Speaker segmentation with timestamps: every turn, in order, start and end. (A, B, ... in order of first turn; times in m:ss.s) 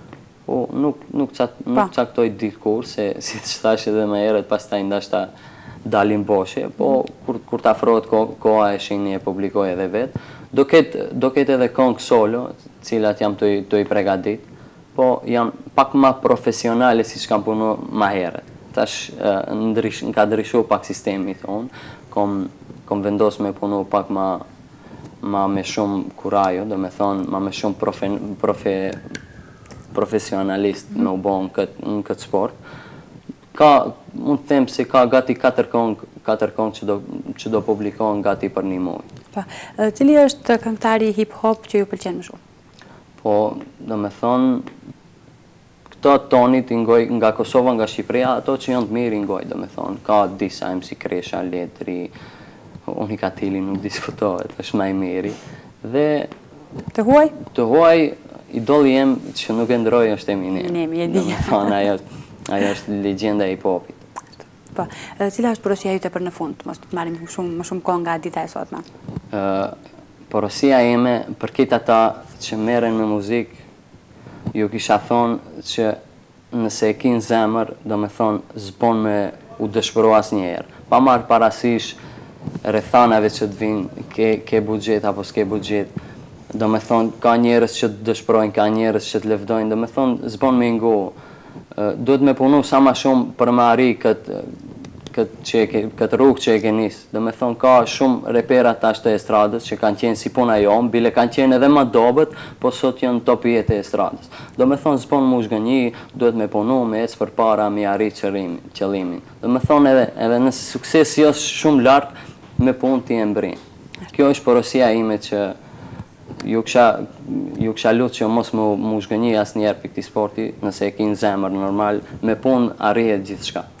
0:00.4-0:05.3 A
0:05.8-0:24.4 A
0:25.2-0:29.0 A
0:29.9-0:32.6 A
0:33.5-0:39.1 A
0:39.3-0:42.4 B
0:43.2-0:44.6 A
0:45.9-0:52.1 A
0:52.8-0:56.3 A
0:56.9-0:57.3 B
0:57.5-1:04.0 A
1:00.6-1:01.7 B
1:04.7-1:08.8 B
1:09.3-1:09.7 A
1:10.3-1:13.6 A
1:14.5-1:16.0 A
1:16.5-1:22.0 A
1:22.6-1:25.9 A
1:26.5-1:31.1 A
1:31.7-1:34.5 A
1:35.1-1:53.6 A
1:54.1-1:55.5 A
1:56.4-2:03.7 A